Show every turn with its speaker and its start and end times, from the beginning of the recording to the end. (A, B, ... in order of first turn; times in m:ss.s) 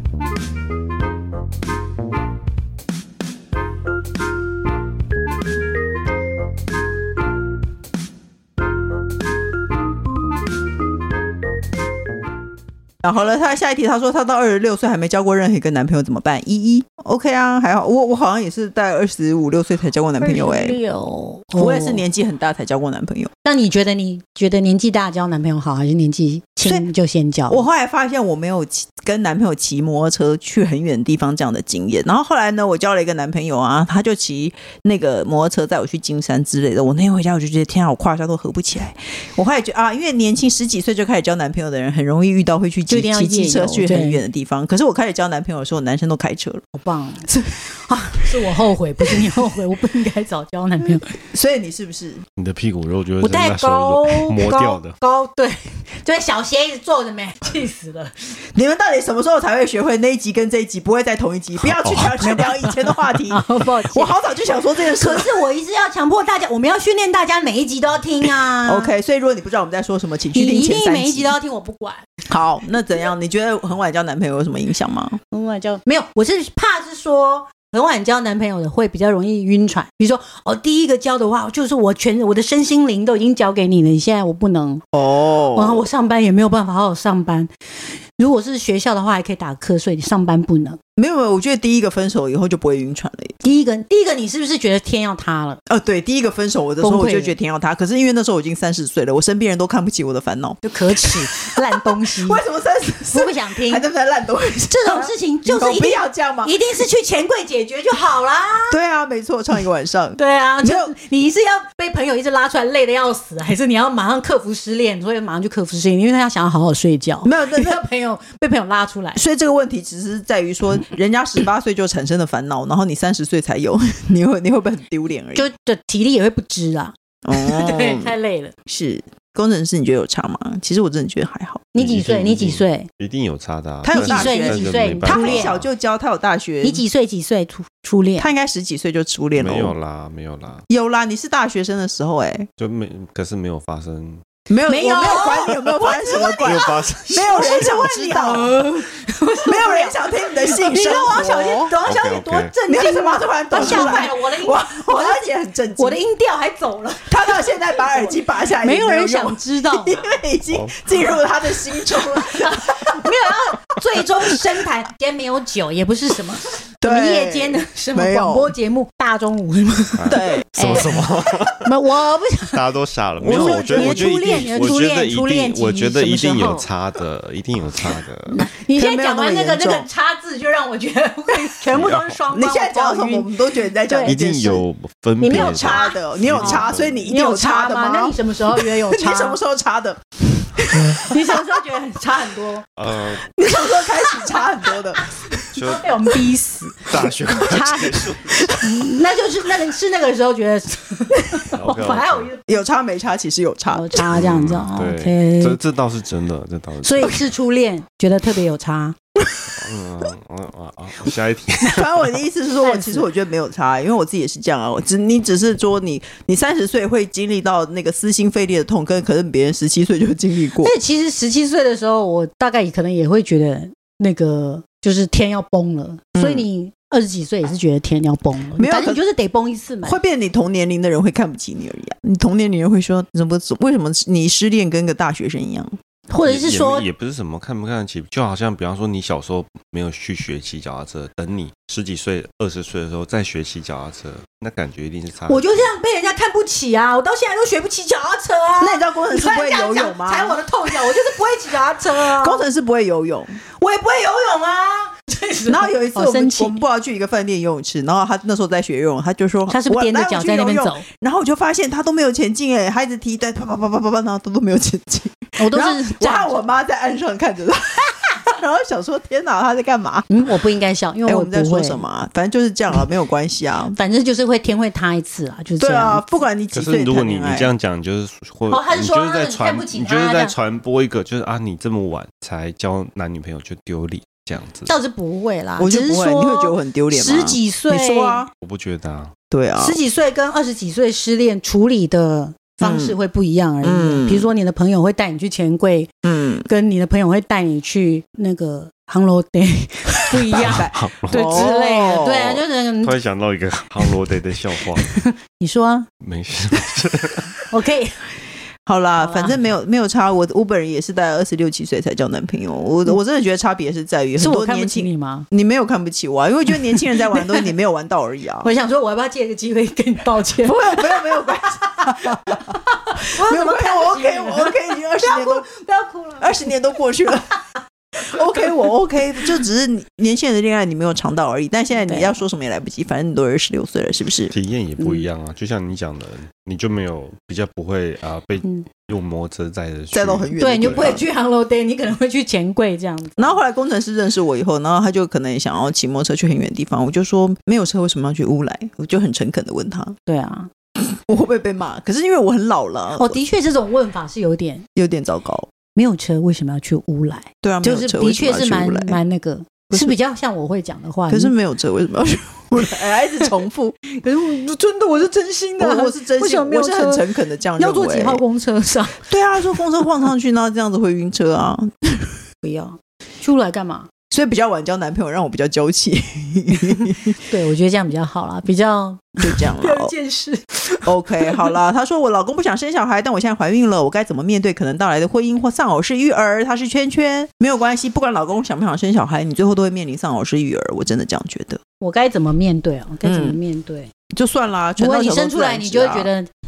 0:13.0-0:20.8 A
0:20.2-0:22.0 B
0:21.5-0:23.3 A
0:23.4-0:27.6 B
0:27.5-0:46.6 A
0:42.9-0:44.2 B
0:46.8-0:47.3 B
0:47.8-0:51.0 B
0:51.3-0:52.2 A
0:52.4-0:55.0 C
0:53.2-0:58.1 B
0:58.6-1:05.3 A
1:01.6-1:02.3 C
1:02.2-1:02.7 B
1:03.3-1:08.9 B
1:08.6-1:11.3 A
1:10.3-1:12.0 B
1:12.3-1:15.2 A
1:15.3-1:24.8 B
1:24.9-1:25.8 A
1:25.5-1:30.8 B
1:31.0-1:33.4 A
1:33.4-1:35.6 B
1:35.7-1:46.6 A
1:36.8-1:37.3 B
1:40.6-1:42.4 B
1:43.1-1:43.8 B
1:44.7-1:48.8 B
1:48.7-1:50.9 A
1:50.2-1:59.2 B
1:57.2-1:57.8 A
1:59.2-2:05.5 A
2:05.3-2:08.5 B
2:07.2-2:08.2 A
2:08.7-2:11.7 A
2:11.7-2:12.9 B
2:11.8-2:15.7 C
2:13.8-2:16.8 A
2:13.9-2:15.6 B
2:16.6-2:18.3 B
2:18.2-2:19.7 A
2:19.3-2:20.6 C
2:20.7-2:22.5 A
2:22.6-2:24.2 C
2:24.5-2:28.6 A
2:24.7-2:35.2 B
2:26.4-2:28.2 C
2:29.4-2:31.8 A
2:31.8-2:32.5 C
2:32.7-2:36.0 A
2:35.8-2:40.1 B
2:37.1-2:43.0 A
2:42.3-2:51.0 B
2:46.8-2:48.5 A
2:49.9-2:51.7 C
2:50.1-2:50.9 A
2:51.6-2:52.6 B
2:52.5-2:58.4 C
2:53.2-2:54.8 A
2:53.3-2:56.7 B
2:58.3-3:04.2 B
2:58.7-2:59.9 A
3:01.7-3:02.2 C
3:02.3-3:04.6 A
3:04.0-3:07.1 C
3:05.2-3:09.4 B
3:05.3-3:11.4 A
3:11.0-3:12.7 B
3:12.8-3:13.3 C
3:13.1-3:15.0 A
3:15.3-3:22.6 B
3:15.5-3:16.2 C
3:16.8-3:18.5 C
3:18.3-3:18.6 A
3:21.5-3:22.3 C
3:22.5-3:24.2 A
3:23.7-3:25.6 B
3:24.0-3:27.2 C
3:26.8-3:29.0 B
3:29.5-3:32.0 C
3:31.6-3:40.7 A
3:32.6-3:33.1 B
3:40.6-3:50.0 B
3:46.2-3:46.5 A
3:48.6-3:49.0 A
3:49.8-3:55.7 A
3:56.1-3:56.8 B
3:56.2-4:05.5 C
4:05.3-4:12.4 B
4:08.6-4:10.9 A
4:12.0-4:13.4 A
4:13.6-4:16.6 B
4:15.5-4:30.1 A
4:19.5-4:20.8 B
4:25.4-4:26.4 B
4:30.1-4:31.8 B
4:31.0-4:33.8 A
4:33.7-4:36.0 B
4:35.6-4:37.5 A
4:36.5-4:44.7 C
4:38.5-4:40.3 B
4:44.7-4:48.2 B
4:45.6-4:48.3 A
4:48.4-4:49.2 C
4:49.3-4:49.8 A
4:49.6-4:55.9 B
4:52.6-4:53.0 A
4:53.6-4:54.3 A
4:56.0-4:56.5 A
4:56.5-5:03.0 B
5:00.3-5:02.4 A
5:00.4-5:01.5 C
5:02.8-5:05.0 C
5:04.8-5:05.9 B
5:06.0-5:07.4 C
5:07.5-5:08.1 B
5:08.6-5:18.5 A
5:09.0-5:09.4 B
5:14.2-5:15.3 B
5:17.0-5:17.3 B
5:18.4-5:26.5 B
5:20.4-5:22.4 A
5:23.1-5:25.5 A
5:26.2-5:27.3 A
5:28.0-5:34.3 A
5:31.9-5:32.1 B
5:34.3-5:40.9 C
5:34.8-5:35.1 B
5:39.9-5:41.0 A
5:40.4-5:43.4 B
5:43.2-5:50.0 A
5:50.1-5:50.5 B
5:50.8-5:53.2 A
5:53.0-5:54.7 B
5:54.8-5:55.5 A
5:55.8-6:01.3 B
5:57.4-5:59.0 A
6:01.1-6:03.8 A
6:04.0-6:07.0 B
6:05.6-6:08.2 A
6:07.6-6:09.0 B
6:09.0-6:12.1 A
6:12.4-6:13.9 B
6:14.1-6:17.2 A
6:17.3-6:21.5 B
6:19.2-6:19.9 A
6:20.9-6:31.6 A
6:31.8-6:33.9 B
6:33.0-6:33.4 A
6:34.2-6:36.1 A
6:34.8-6:36.3 B